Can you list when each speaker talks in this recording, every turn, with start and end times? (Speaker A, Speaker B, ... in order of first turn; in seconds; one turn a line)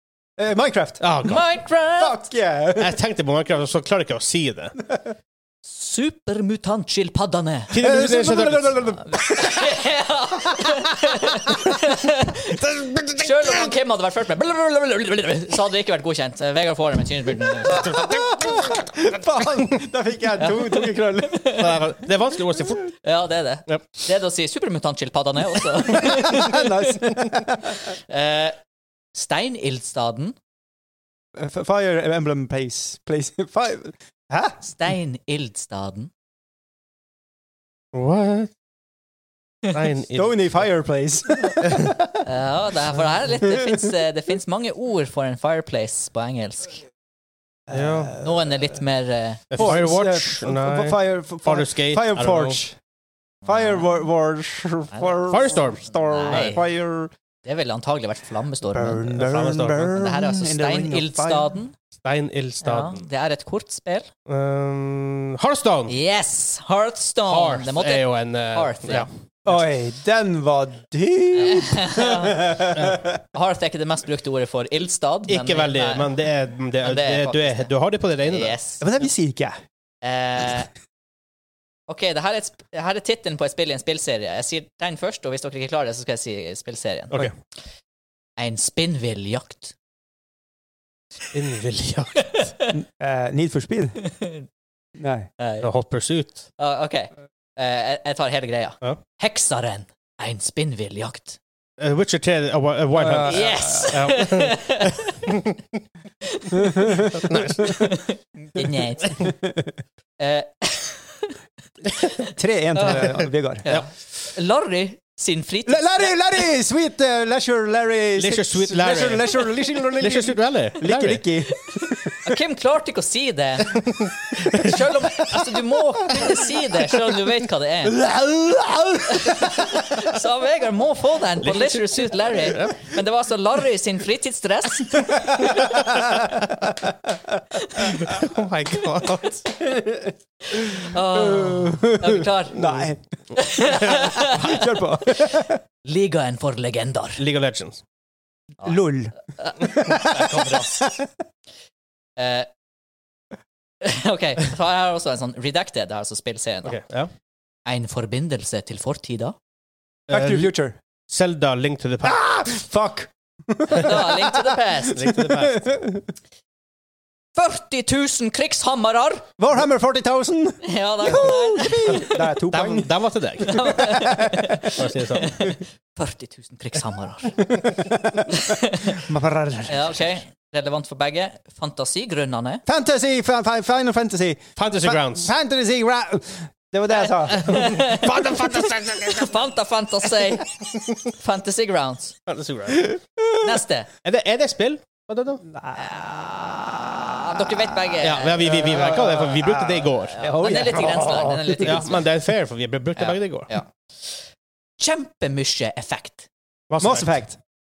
Speaker A: 0.4-1.0
Speaker B: 1.0-1.5
Speaker C: 1.2-2.2
Speaker A: 2.0-3.0
Speaker B: 2.8-4.8
Speaker C: 5.7-7.8
Speaker B: 7.7-9.0
Speaker A: 7.7-9.8
Speaker C: 9.0-18.1
Speaker A: 17.7-21.5
Speaker B: 17.8-18.7
Speaker C: 20.4-21.7
Speaker B: 21.4-22.9
Speaker C: 23.0-26.7
Speaker A: 25.8-27.9
Speaker C: 27.7-28.6
Speaker C: 29.1-30.4
Speaker A: 31.4-34.6
Speaker C: 34.6-36.1
Speaker B: 37.9-38.5
Speaker B: 39.7-40.7
Speaker A: 40.1-42.2
Speaker C: 42.2-46.8
Speaker A: 43.4-43.8
Speaker B: 47.7-48.2
Speaker A: 47.7-48.3
Speaker C: 48.2-49.8
Speaker B: 49.5-52.6
Speaker A: 49.6-52.8
Speaker A: 53.5-57.1
Speaker C: 54.9-55.2
Speaker B: 55.3-56.5
Speaker C: 56.0-56.7
Speaker C: 57.5-59.3
Speaker A: 58.7-61.6
Speaker B: 59.1-60.0
Speaker C: 59.9-61.7
Speaker B: 62.0-63.0
Speaker C: 62.6-64.1
Speaker B: 64.3-66.0
Speaker C: 65.9-69.1
Speaker B: 67.3-69.6
Speaker A: 69.5-73.2
Speaker C: 71.3-72.8
Speaker B: 72.7-73.0
Speaker C: 73.3-76.1
Speaker B: 75.3-78.6
Speaker C: 76.8-77.7
Speaker C: 78.3-78.9
Speaker A: 78.8-79.6
Speaker C: 80.0-80.7
Speaker C: 81.9-87.3
Speaker C: 88.4-89.8
Speaker B: 91.3-92.5
Speaker C: 92.3-92.8
Speaker A: 92.7-94.0
Speaker C: 94.0-94.5
Speaker A: 95.0-95.3
Speaker C: 95.4-95.7
Speaker B: 95.6-96.4
Speaker C: 96.6-101.4
Speaker B: 101.8-105.6
Speaker A: 103.0-103.9
Speaker C: 103.2-105.3
Speaker C: 106.2-109.3
Speaker A: 106.6-107.3
Speaker B: 107.1-108.0
Speaker A: 109.2-109.7
Speaker C: 110.2-111.3
Speaker C: 111.9-116.4
Speaker A: 112.2-113.7
Speaker A: 115.7-121.9
Speaker B: 118.2-121.3
Speaker C: 121.6-128.1
Speaker B: 123.8-124.8
Speaker A: 127.9-129.8
Speaker C: 129.0-135.8
Speaker B: 131.4-132.8
Speaker A: 135.4-137.3
Speaker C: 137.6-137.9
Speaker B: 137.8-139.4
Speaker A: 139.7-140.0
Speaker C: 140.5-142.6
Speaker A: 140.8-143.0
Speaker C: 143.4-147.2
Speaker B: 143.6-144.2
Speaker A: 143.9-145.6
Speaker B: 147.2-147.8
Speaker A: 148.6-151.1
Speaker C: 149.4-150.7
Speaker C: 152.2-152.5
Speaker C: 153.8-156.8
Speaker B: 156.7-157.1
Speaker C: 157.7-159.4
Speaker B: 160.1-160.5
Speaker A: 160.1-160.8
Speaker B: 161.1-162.3
Speaker A: 162.0-164.6
Speaker C: 163.7-165.0
Speaker B: 164.9-165.8
Speaker A: 165.2-166.1
Speaker C: 167.4-169.3
Speaker A: 169.4-172.9
Speaker C: 170.6-172.2
Speaker B: 172.5-173.9
Speaker C: 173.4-177.4
Speaker A: 173.5-174.6
Speaker B: 174.7-175.5
Speaker A: 177.5-179.8
Speaker C: 178.3-179.1
Speaker C: 179.7-182.7
Speaker A: 182.7-187.7
Speaker B: 184.6-185.3
Speaker C: 186.9-188.3
Speaker B: 187.3-189.3
Speaker C: 189.0-190.5
Speaker C: 191.1-192.2
Speaker B: 192.3-193.0
Speaker A: 192.8-193.2
Speaker C: 193.4-193.9
Speaker B: 194.0-195.4
Speaker A: 195.5-201.9
Speaker C: 195.8-196.2
Speaker C: 197.1-199.0
Speaker B: 198.0-200.2
Speaker C: 200.1-202.1
Speaker B: 201.6-203.5
Speaker C: 203.0-204.2
Speaker C: 204.8-206.3
Speaker B: 206.7-207.1
Speaker A: 206.8-207.4